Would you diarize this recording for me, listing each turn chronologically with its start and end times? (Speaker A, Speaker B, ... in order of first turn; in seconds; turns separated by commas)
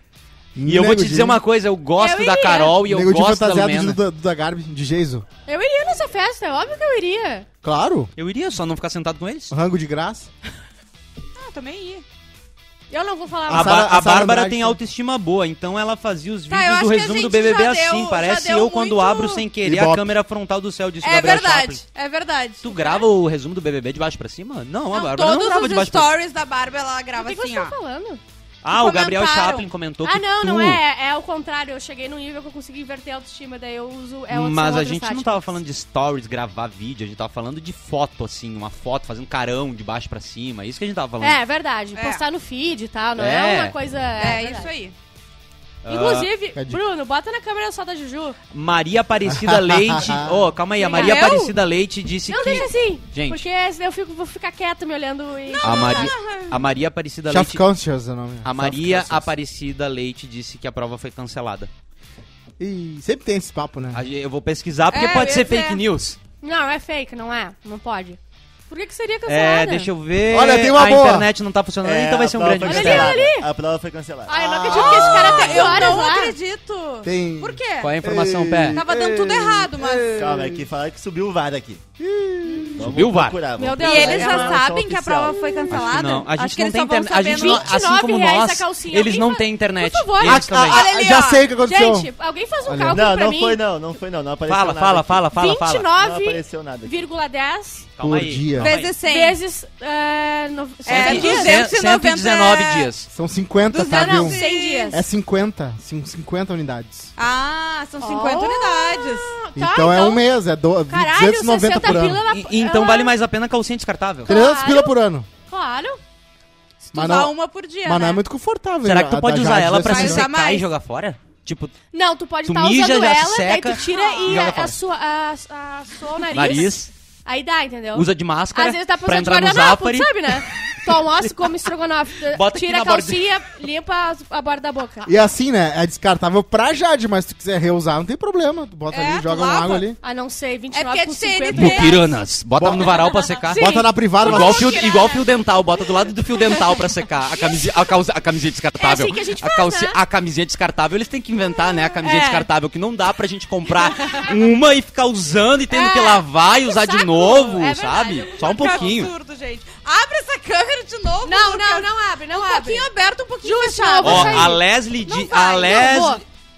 Speaker A: 0.6-1.4, Speaker B: 0.7-4.0, Speaker C: 2.0-2.8, Speaker A: 2.8-5.2, Speaker C: 5.5-7.5, Speaker A: 7.6-8.1, Speaker B: 8.2-9.6, Speaker A: 9.5-10.3, Speaker D: 11.3-12.0, Speaker C: 12.9-13.8, Speaker B: 13.5-21.8, Speaker A: 13.5-14.8, Speaker D: 16.5-19.5, Speaker A: 19.6-20.1, Speaker D: 21.0-23.1, Speaker B: 22.6-26.1, Speaker D: 24.9-27.7, Speaker C: 27.2-28.2, Speaker B: 28.6-30.8, Speaker D: 28.7-29.7, Speaker C: 30.0-35.6, Speaker B: 34.3-41.4, Speaker C: 41.2-44.7, Speaker D: 42.0-42.2, Speaker B: 43.2-43.8, Speaker D: 44.2-45.0, Speaker B: 45.8-46.3, Speaker C: 45.9-48.4, Speaker A: 46.6-46.8, Speaker B: 48.5-53.5, Speaker A: 49.3-50.4, Speaker C: 50.8-51.5, Speaker D: 50.9-51.5, Speaker C: 52.3-56.1, Speaker D: 55.5-56.6, Speaker B: 55.6-57.6, Speaker A: 57.3-59.3, Speaker B: 58.4-61.7, Speaker A: 62.6-64.0, Speaker B: 63.9-66.2, Speaker D: 64.9-65.8, Speaker C: 66.4-69.9, Speaker B: 69.3-73.2, Speaker A: 70.3-71.3, Speaker E: 71.8-75.9, Speaker C: 72.6-73.5, Speaker C: 74.3-76.3, Speaker D: 74.7-78.0, Speaker A: 77.0-80.7, Speaker B: 77.8-78.8, Speaker D: 78.7-80.3, Speaker E: 80.2-81.8, Speaker A: 82.0-82.9, Speaker D: 82.4-82.9, Speaker E: 82.8-85.8, Speaker B: 82.8-83.4, Speaker C: 83.6-84.6, Speaker D: 83.7-87.7, Speaker C: 85.4-85.6, Speaker B: 85.7-90.9, Speaker C: 87.3-93.6, Speaker A: 90.2-92.1, Speaker D: 90.6-91.5, Speaker A: 92.7-93.1, Speaker E: 92.9-95.3, Speaker B: 94.5-95.9, Speaker C: 95.3-97.9, Speaker E: 95.9-97.1, Speaker B: 98.0-98.9, Speaker A: 98.0-98.7, Speaker D: 98.6-99.4, Speaker C: 99.0-101.7, Speaker D: 100.9-102.9, Speaker B: 100.9-103.1, Speaker A: 103.1-104.4, Speaker D: 103.7-105.0, Speaker C: 103.9-105.0, Speaker A: 104.9-107.1, Speaker D: 107.2-109.3, Speaker C: 108.0-110.3, Speaker A: 109.6-112.3, Speaker C: 110.9-113.2, Speaker B: 112.1-114.3, Speaker C: 114.3-115.0, Speaker A: 114.3-115.3, Speaker C: 115.5-116.0, Speaker D: 116.8-118.2, Speaker A: 116.9-117.3, Speaker A: 117.8-120.3, Speaker B: 118.8-121.8, Speaker D: 119.8-120.7, Speaker C: 121.9-135.1, Speaker B: 122.5-124.8, Speaker D: 123.8-124.3, Speaker B: 126.3-126.9, Speaker B: 127.9-130.4, Speaker B: 132.2-133.2, Speaker A: 135.1-140.0, Speaker D: 138.9-139.9, Speaker C: 140.0-142.2, Speaker D: 140.7-142.1, Speaker B: 141.5-159.1, Speaker A: 142.6-143.0, Speaker D: 142.8-143.4, Speaker C: 143.4-145.3, Speaker A: 143.6-144.8, Speaker C: 147.4-147.7, Speaker C: 148.8-150.0, Speaker C: 152.0-152.5, Speaker C: 155.7-158.9, Speaker D: 156.7-164.6, Speaker C: 161.2-162.9, Speaker C: 163.4-166.2, Speaker B: 164.0-166.2